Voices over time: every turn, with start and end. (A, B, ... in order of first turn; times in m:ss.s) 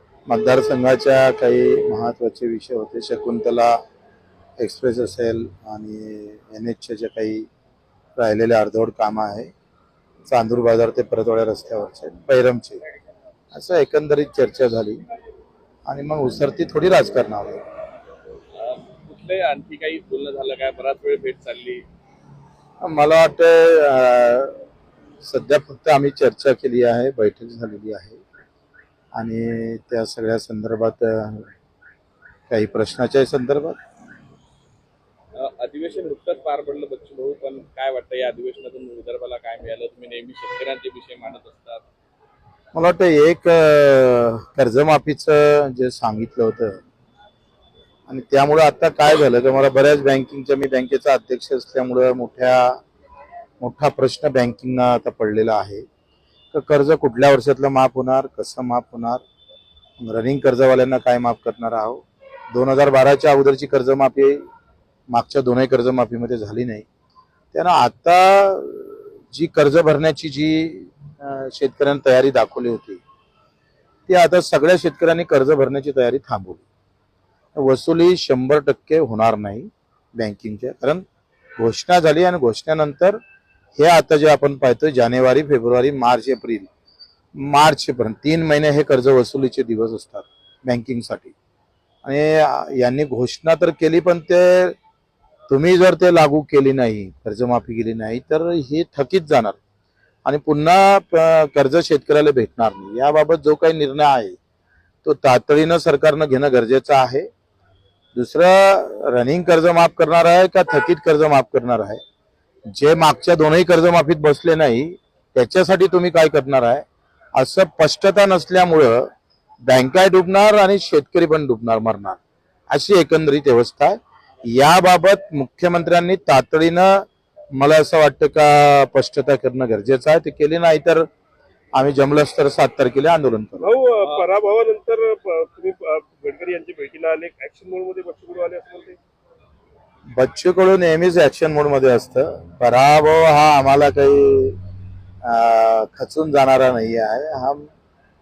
0:00.3-0:03.8 A
0:04.6-0:07.5 A
0:08.2-0:09.5 A
0:10.3-0:12.8 A
0:13.5-0:15.0 A
0:15.9-0:17.6 A
0:18.6-0:21.8 B
0:22.8-0:24.6 A
0:25.2-0:28.2 A
0:29.2-0:31.5 A
0:32.5-0:33.8 A
0:35.4-0:41.8 B
0:42.7-0:46.8 A
0:48.1-0:52.8 A
0:53.6-0:55.8 A
0:56.5-0:59.2 A
1:00.0-1:04.4 A
1:05.1-1:06.9 A
1:07.5-1:13.0 A
1:14.1-1:16.6 A
1:17.6-1:21.0 A
1:21.6-1:23.2 A
1:23.8-1:26.7 A
1:27.4-1:31.3 A
1:32.0-1:34.8 A
1:35.5-1:39.6 A
1:40.2-1:44.4 A
1:45.0-1:47.3 A
1:48.1-1:52.0 A
1:52.7-1:56.8 A
1:57.4-1:59.1 A
1:59.6-2:02.2 A
2:02.7-2:11.1 A
2:11.8-2:13.7 A
2:13.6-2:19.0 C
2:20.2-2:24.6 A
2:25.2-2:27.7 A